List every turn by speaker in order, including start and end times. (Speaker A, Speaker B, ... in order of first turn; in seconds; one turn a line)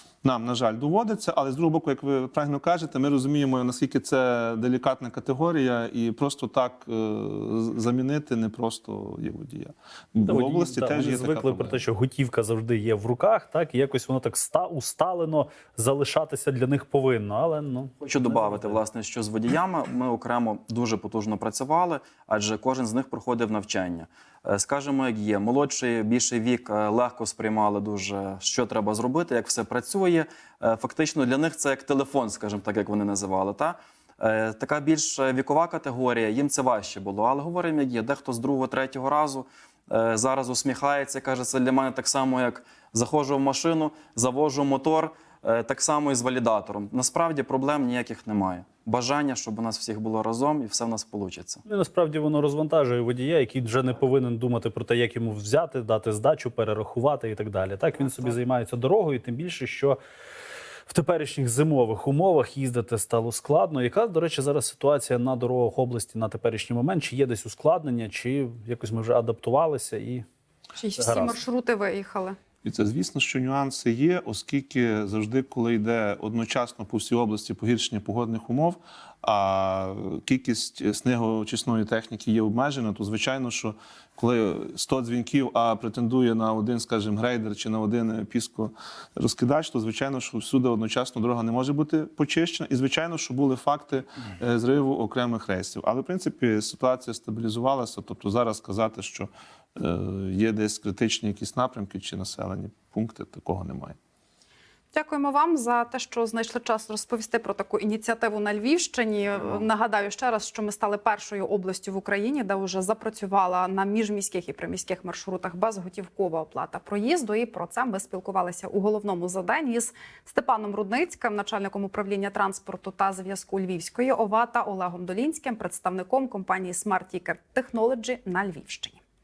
Speaker A: 0.2-11.8
Speaker B: 10.2-18.8
Speaker C: 18.0-51.6
Speaker B: 51.6-60.0
Speaker B: 60.9-70.2
Speaker D: 70.8-72.4
Speaker B: 71.0-71.3
Speaker A: 72.6-104.0
Speaker D: 104.9-129.0